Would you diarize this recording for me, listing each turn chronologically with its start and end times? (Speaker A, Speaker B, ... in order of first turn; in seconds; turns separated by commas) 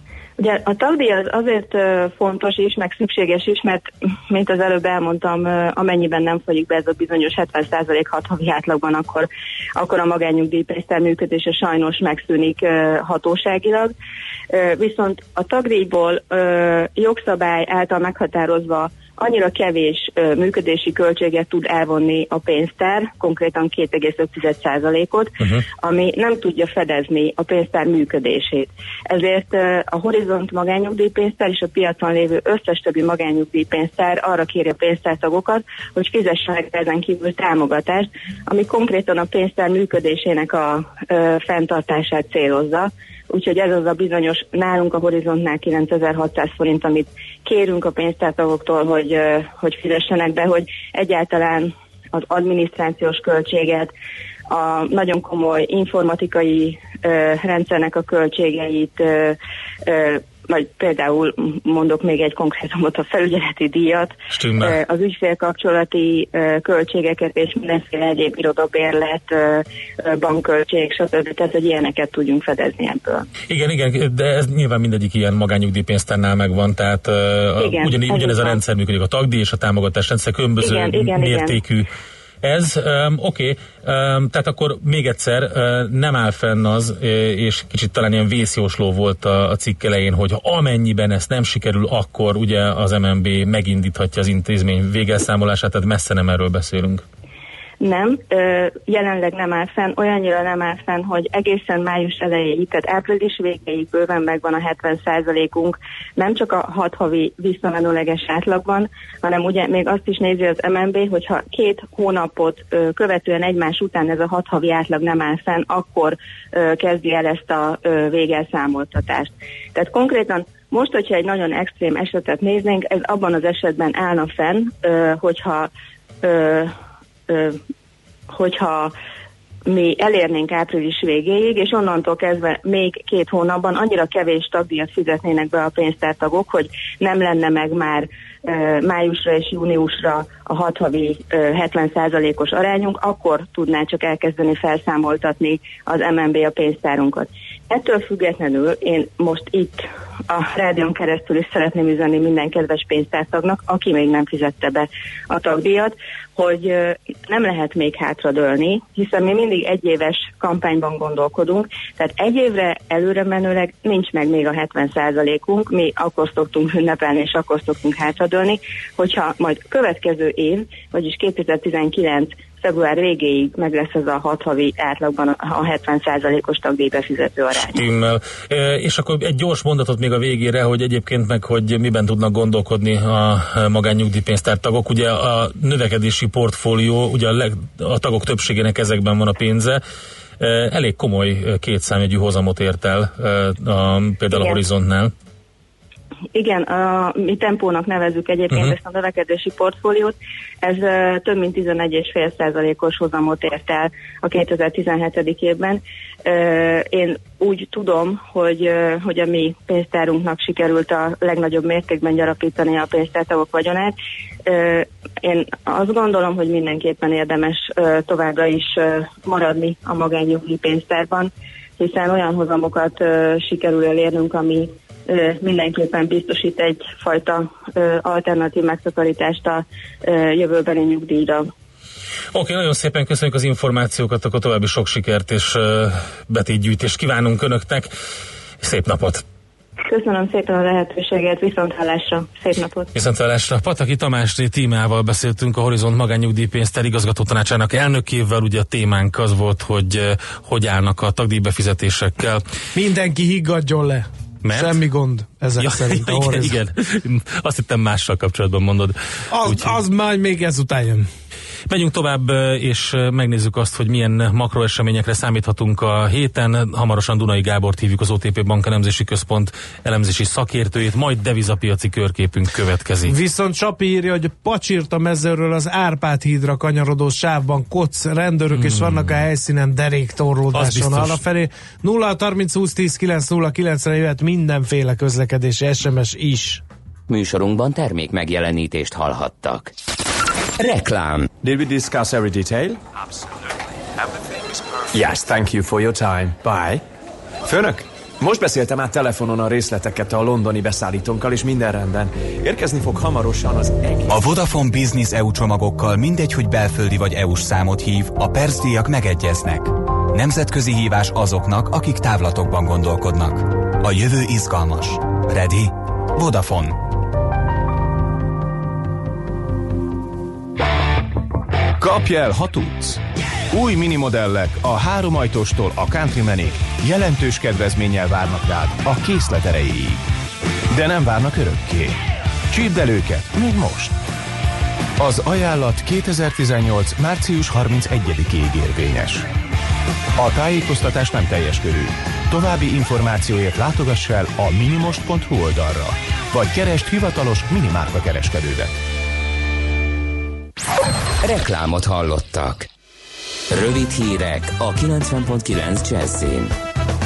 Speaker A: 0.4-13.9, Speaker A: 14.5-53.9, Speaker A: 54.5-73.2, Speaker B: 64.3-64.8, Speaker B: 73.5-81.9, Speaker A: 77.6-78.6, Speaker A: 80.6-81.6, Speaker B: 82.4-97.0, Speaker A: 97.8-125.7, Speaker A: 126.2-126.7, Speaker A: 127.3-127.6, Speaker A: 128.3-128.9, Speaker A: 129.7-177.8, Speaker B: 177.7-189.8, Speaker B: 190.4-195.1, Speaker A: 194.3-194.6, Speaker A: 196.3-213.9, Speaker A: 214.4-231.5, Speaker B: 232.3-237.9, Speaker B: 238.6-239.2, Speaker A: 239.9-242.9, Speaker B: 242.9-252.4, Speaker C: 252.7-256.6, Speaker B: 254.4-254.8, Speaker B: 255.6-259.8, Speaker C: 259.3-261.1, Speaker B: 261.7-273.1, Speaker C: 273.1-286.6, Speaker B: 278.5-279.2, Speaker B: 280.5-281.2, Speaker D: 287.1-289.7, Speaker D: 290.6-291.3, Speaker E: 291.4-292.8, Speaker E: 294.9-296.8, Speaker E: 297.4-304.1, Speaker F: 304.1-316.8, Speaker G: 321.8-330.0, Speaker G: 330.7-332.0, Speaker G: 332.5-334.0, Speaker G: 335.0-339.3, Speaker G: 340.2-348.8, Speaker D: 351.2-352.7, Speaker D: 353.5-356.5